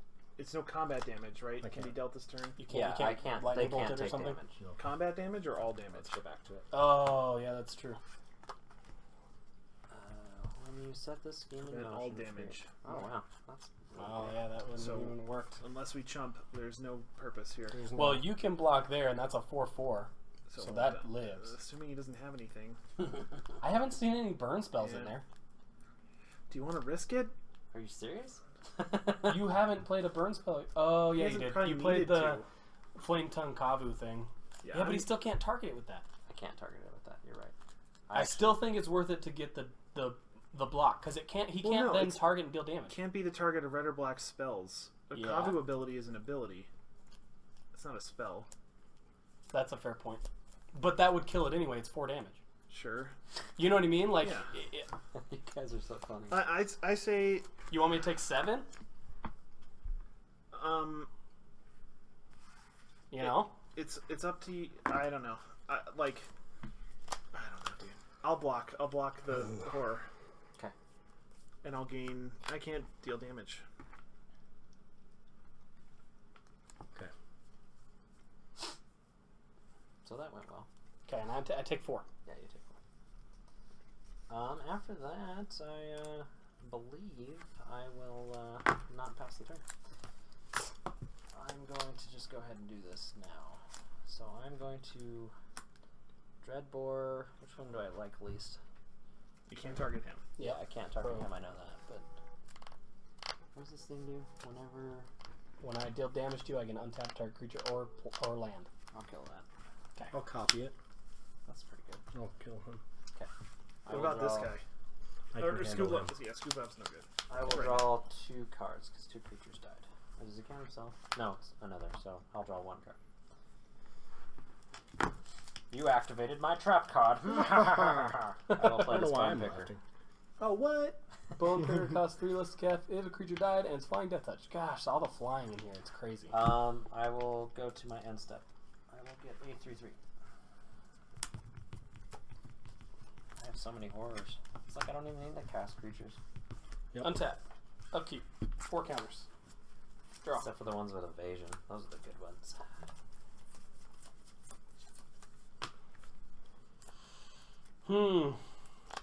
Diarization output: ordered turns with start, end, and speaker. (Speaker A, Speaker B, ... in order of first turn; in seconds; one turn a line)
Speaker A: 0.4-2.6
Speaker B: 1.6-1.9
Speaker C: 2.6-4.4
Speaker D: 2.7-4.6
Speaker A: 4.8-6.2
Speaker D: 5.9-6.7
Speaker C: 6.7-8.0
Speaker D: 9.9-14.4
Speaker A: 11.6-12.7
Speaker C: 14.0-15.6
Speaker A: 14.8-17.8
Speaker B: 17.7-18.4
Speaker C: 17.9-21.5
Speaker A: 20.5-22.8
Speaker C: 23.6-25.2
Speaker A: 24.7-25.2
Speaker A: 26.5-27.3
Speaker D: 27.7-29.5
Speaker C: 29.2-32.4
Speaker A: 31.0-32.5
Speaker C: 33.0-36.0
Speaker A: 34.6-35.1
Speaker D: 36.3-37.5
Speaker D: 38.1-38.7
Speaker C: 38.1-43.0
Speaker A: 41.6-46.7
Speaker C: 45.1-45.8
Speaker A: 47.7-48.5
Speaker C: 49.5-52.4
Speaker A: 52.7-53.1
Speaker C: 53.6-54.9
Speaker A: 54.1-54.5
Speaker D: 55.1-56.5
Speaker A: 56.3-57.5
Speaker C: 57.7-58.7
Speaker A: 60.5-61.1
Speaker C: 63.1-63.5
Speaker A: 63.2-66.3
Speaker A: 67.3-70.0
Speaker A: 71.6-73.6
Speaker D: 80.0-80.7
Speaker C: 81.0-82.0
Speaker D: 82.2-82.7
Speaker D: 84.3-89.6
Speaker D: 91.3-95.3
Speaker D: 96.4-98.6
Speaker A: 99.5-100.2
Speaker C: 100.4-101.3
Speaker D: 100.4-102.1
Speaker D: 103.5-105.1
Speaker C: 105.6-108.7
Speaker D: 108.9-109.5
Speaker B: 110.1-110.7
Speaker D: 111.5-112.0
Speaker B: 112.1-112.8
Speaker D: 113.8-114.6
Speaker A: 113.9-114.6
Speaker B: 115.3-116.1
Speaker A: 115.3-117.9
Speaker D: 117.3-123.0
Speaker D: 125.7-129.7
Speaker B: 127.6-128.0
Speaker B: 128.6-129.8
Speaker B: 130.4-130.9
Speaker C: 131.4-136.3
Speaker D: 136.3-140.0
Speaker D: 143.4-146.2
Speaker B: 146.9-147.2
Speaker C: 147.0-147.4
Speaker C: 147.9-149.3
Speaker D: 150.3-152.6
Speaker C: 157.8-158.4